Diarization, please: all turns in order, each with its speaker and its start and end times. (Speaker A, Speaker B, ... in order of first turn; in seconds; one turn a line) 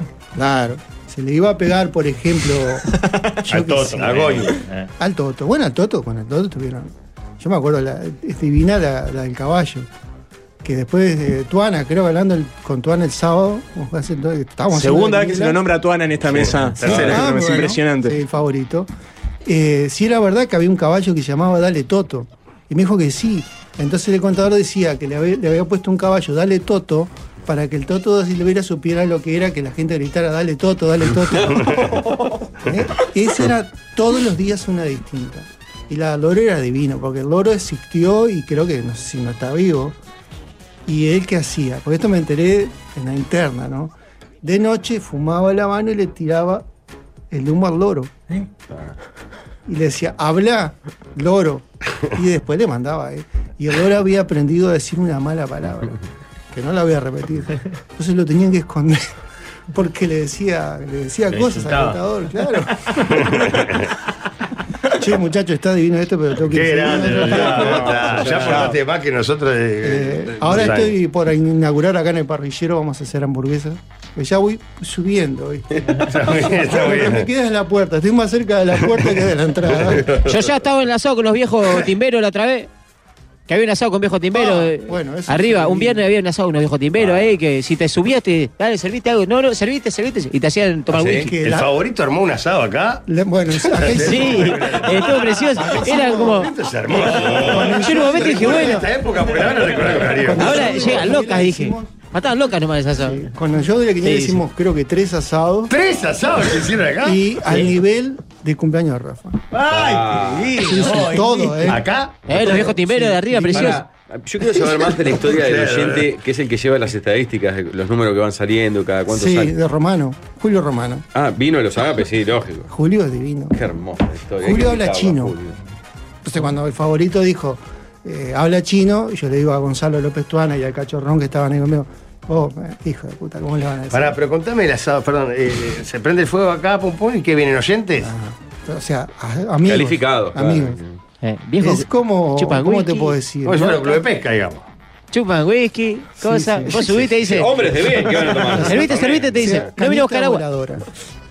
Speaker A: 0.3-2.9
Speaker A: 3.5-4.2
Speaker B: 3.5-4.9
Speaker C: 4.0-4.6
Speaker A: 5.0-9.9
Speaker A: 10.6-15.6
Speaker D: 14.7-18.2
Speaker C: 16.3-17.2
Speaker E: 16.8-17.2
Speaker A: 17.0-18.9
Speaker A: 19.4-32.1
Speaker E: 31.1-31.9
Speaker A: 32.7-40.0
Speaker A: 40.9-46.6
Speaker A: 47.3-48.1
Speaker A: 49.7-56.0
Speaker A: 56.5-59.1
Speaker A: 59.7-63.3
Speaker B: 61.3-62.0
Speaker B: 62.7-63.4
Speaker C: 63.2-63.9
Speaker A: 65.0-68.2
Speaker C: 66.5-71.0
Speaker B: 67.2-68.7
Speaker D: 67.5-68.8
Speaker A: 69.8-80.0
Speaker E: 70.5-70.7
Speaker C: 76.1-77.3
Speaker E: 79.9-80.3
Speaker F: 80.1-82.7
Speaker F: 83.5-91.3
Speaker A: 84.3-86.1
Speaker E: 87.0-87.3
Speaker E: 90.9-91.3
Speaker A: 91.2-91.7
Speaker C: 91.4-93.1
Speaker A: 93.1-96.5
Speaker C: 93.7-101.0
Speaker F: 93.9-96.5
Speaker A: 97.2-98.9
Speaker F: 97.4-98.9
Speaker A: 100.0-102.0
Speaker F: 100.3-103.3
Speaker A: 103.0-105.7
Speaker F: 104.0-104.4
Speaker C: 105.7-107.2
Speaker A: 107.0-109.4
Speaker B: 107.5-107.8
Speaker B: 109.5-111.8
Speaker E: 109.7-110.6
Speaker A: 110.6-113.8
Speaker C: 111.7-112.3
Speaker F: 112.3-113.9
Speaker E: 113.5-119.5
Speaker C: 114.8-116.1
Speaker A: 119.1-121.0
Speaker E: 121.1-122.7
Speaker A: 122.7-123.6
Speaker E: 123.5-125.6
Speaker A: 124.4-125.4
Speaker A: 126.2-134.1
Speaker C: 133.9-138.1
Speaker A: 138.0-140.8
Speaker E: 139.7-141.0
Speaker F: 141.2-143.2
Speaker A: 141.6-144.0
Speaker C: 143.4-144.7
Speaker F: 145.1-150.4
Speaker A: 146.2-147.5
Speaker E: 147.3-149.7
Speaker A: 148.2-150.8